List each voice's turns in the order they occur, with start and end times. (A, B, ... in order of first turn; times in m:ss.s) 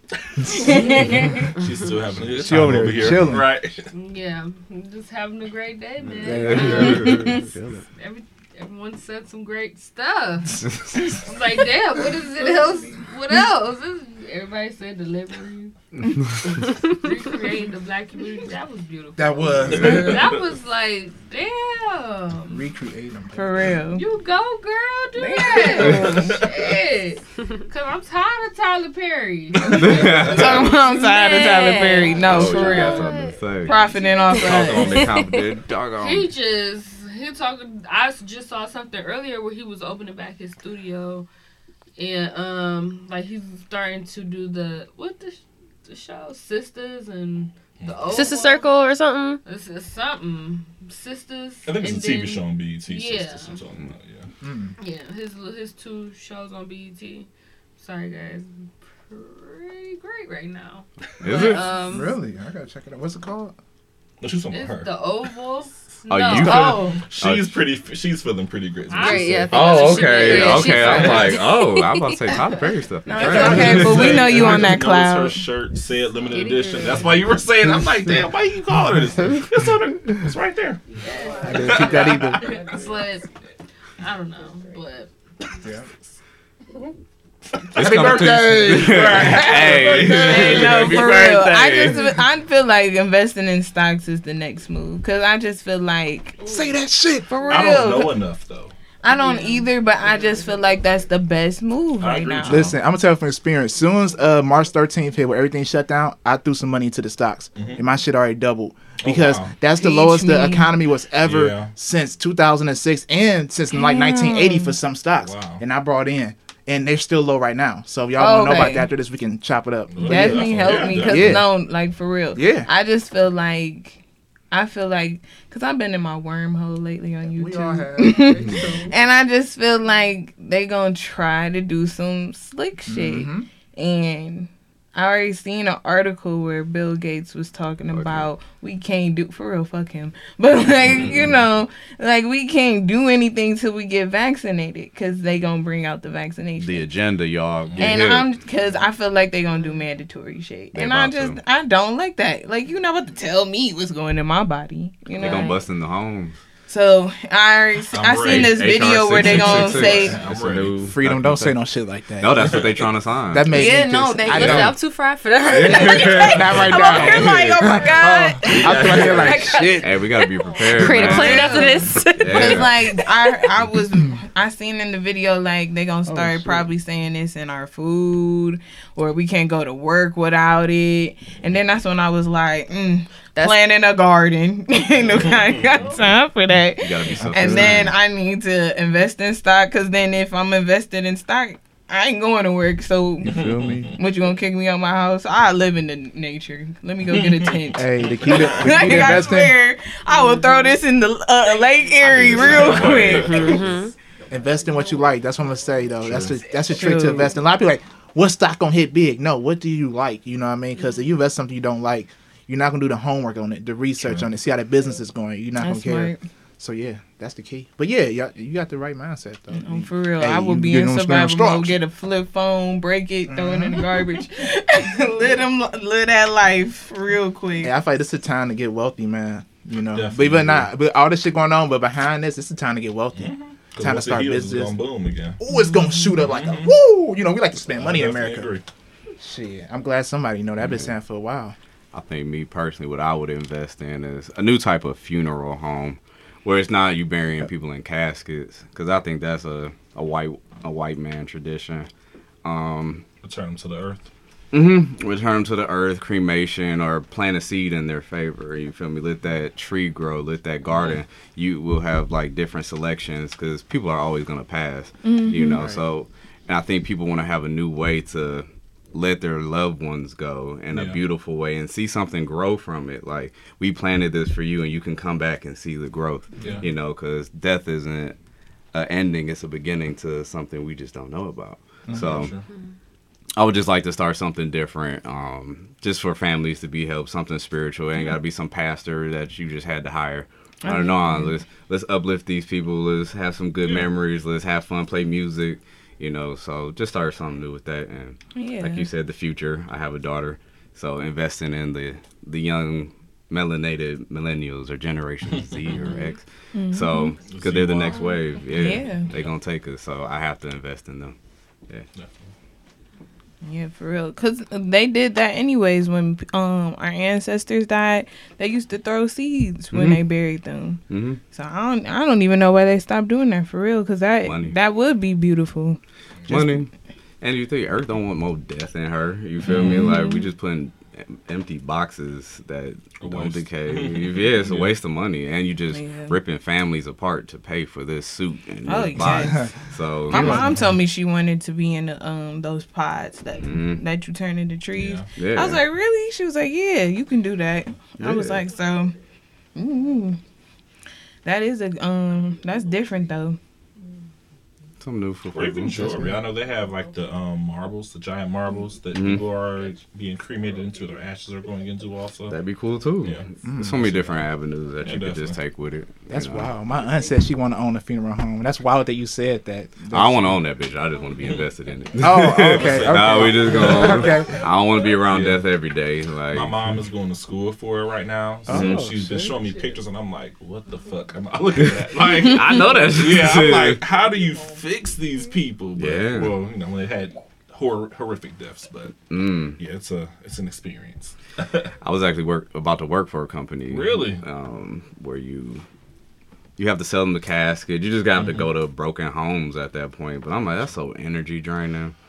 0:00.2-0:03.9 A
0:00.5-0:01.4 B
0:00.6-0:01.5 C
0:02.3-0:03.5 D
0:03.9-0:15.7 B
0:06.1-0:07.8 E
0:06.2-0:07.8 D
0:07.0-0:07.4 C
0:10.6-0:11.2 E
0:16.1-0:16.6 E
0:16.4-0:22.6 B
0:19.2-0:20.3 D
0:19.6-0:20.4 A
0:22.5-0:23.6 D
0:23.3-0:24.0 C
0:24.0-0:33.8 B
0:25.2-0:26.4 C
0:25.5-0:26.2 F
0:25.8-0:26.5 A
0:29.6-0:30.5 A
0:29.7-0:30.8 E
0:30.1-0:33.1 C
0:32.2-0:33.7 E
0:32.3-0:33.4 F
0:33.6-0:35.0 C
0:34.3-0:35.5 F
0:34.4-0:36.3 E
0:36.0-0:41.3 B
0:42.0-0:48.8 B
0:47.8-0:48.1 A
0:48.1-0:49.4 F
0:49.4-0:53.7 B
0:51.7-0:54.3 A
0:54.4-0:54.7 D
0:54.8-1:02.1 B
1:01.2-1:01.7 E
1:01.9-1:03.6 D
1:04.2-1:04.9 A
1:04.5-1:06.8 B
1:06.1-1:07.5 E
1:06.4-1:07.0 C
1:06.4-1:06.6 D
1:07.0-1:11.3 A
1:08.9-1:11.4 B
1:09.0-1:12.5 F
1:09.5-1:14.4 E
1:13.1-1:15.4 C
1:13.1-1:14.1 D
1:13.2-1:20.8 A
1:16.3-1:17.0 B
1:16.4-1:16.9 F
1:21.0-1:23.3 B
1:21.4-1:22.7 D
1:21.6-1:22.4 A
1:24.0-1:25.8 B
1:25.6-1:25.9 D
1:27.6-1:31.3 A
1:27.7-1:32.1 E
1:27.8-1:29.7 D
1:30.0-1:36.6 C
1:36.4-1:37.3 D
1:37.3-1:38.2 C
1:37.4-1:38.7 A
1:39.0-1:42.7 C
1:42.0-1:42.8 A
1:42.5-2:01.5 D
1:47.6-1:47.8 A
1:49.0-1:49.6 A
1:49.7-1:50.8 C
1:51.2-1:51.7 A
1:53.7-1:54.7 C
1:55.2-1:55.6 A
1:58.2-1:58.9 C
1:59.9-2:01.4 A
2:00.0-2:26.9 C
2:02.3-2:02.7 D
2:07.3-2:08.9 D
2:12.9-2:13.5 D
2:17.9-2:18.3 E
2:26.6-2:28.3 E
2:27.6-2:28.0 A
2:27.8-2:35.6 C
2:30.7-2:31.4 E
2:35.2-2:35.6 F
2:35.2-2:36.4 E
2:36.7-2:40.1 C
2:37.9-2:40.9 A
2:38.2-2:41.6 E
2:40.8-2:42.6 D
2:42.2-2:43.7 E
2:42.3-2:42.9 A
2:43.3-2:44.8 D
2:43.5-2:53.5 F
2:44.3-2:44.7 E
2:45.4-2:47.7 E
2:46.0-2:50.0 D
2:48.4-2:52.9 E
2:50.8-2:51.7 D
2:51.0-3:23.6 C
2:56.1-2:56.7 D
3:05.1-3:05.9 A
3:06.8-3:08.0 E
3:07.1-3:07.7 D
3:07.2-3:07.8 A
3:13.2-3:14.0 D
3:13.3-3:14.0 A
3:17.1-3:17.6 A
3:17.7-3:19.6 D
3:18.2-3:18.8 A
3:22.0-3:23.5 A
3:22.1-3:23.6 E
3:23.3-3:23.9 F
3:24.3-3:41.8 D
3:26.0-3:26.4 A
3:26.6-3:27.3 C
3:34.0-3:34.3 A
3:35.6-3:36.2 C
3:39.5-3:47.7 C
3:43.3-3:44.0 D
3:47.6-3:54.8 D
3:49.9-3:50.7 A
3:53.2-3:55.4 A
3:55.4-3:58.5 D
3:55.5-3:56.2 C
3:56.2-3:56.7 A
3:57.7-3:58.6 A
3:59.2-4:01.6 D
4:00.6-4:00.9 E
4:01.9-4:11.9 E
4:12.4-4:13.0 E
4:13.2-4:14.1 A
4:14.5-4:38.2 E
4:20.7-4:21.0 A
4:25.0-4:25.6 C
4:25.4-4:25.8 A
4:30.7-4:31.0 A
4:36.4-4:36.7 A
4:38.7-4:42.4 E
4:41.9-4:42.5 A
4:43.4-5:11.1 E
4:50.6-4:51.4 C
4:58.3-4:58.9 C
5:05.3-5:06.1 A
5:06.5-5:07.2 C
5:07.2-5:09.3 A
5:08.5-5:09.1 C
5:13.4-5:25.8 C
5:19.7-5:20.0 E
5:20.9-5:21.2 E
5:24.2-5:24.6 E
5:26.3-5:40.6 E
5:29.4-5:29.9 A
5:29.5-5:30.3 C
5:33.0-5:34.8 A
5:35.7-5:36.2 C
5:38.7-5:39.5 C
5:40.1-5:48.9 C
5:40.1-5:40.6 D
5:43.4-5:43.8 E
5:44.7-5:45.1 A
5:45.2-5:45.6 E
5:48.0-5:48.4 E
5:49.6-5:50.2 C
5:51.2-5:53.4 C
5:54.8-5:56.1 E
5:55.3-6:02.4 A
5:58.9-5:59.3 E
6:02.3-6:06.5 E
6:03.0-6:05.4 A
6:03.4-6:03.8 D
6:06.1-6:10.4 D
6:09.9-6:16.6 E
6:11.2-6:11.5 A
6:12.0-6:14.4 D
6:12.2-6:14.4 A
6:15.0-6:15.4 A
6:16.3-6:31.7 A
6:18.5-6:19.4 D
6:18.5-6:18.9 E
6:21.6-6:23.8 E
6:25.8-6:26.4 E
6:29.1-6:29.6 E
6:31.8-6:35.6 E
6:33.7-6:34.2 A
6:36.6-6:41.9 E
6:38.1-6:38.5 A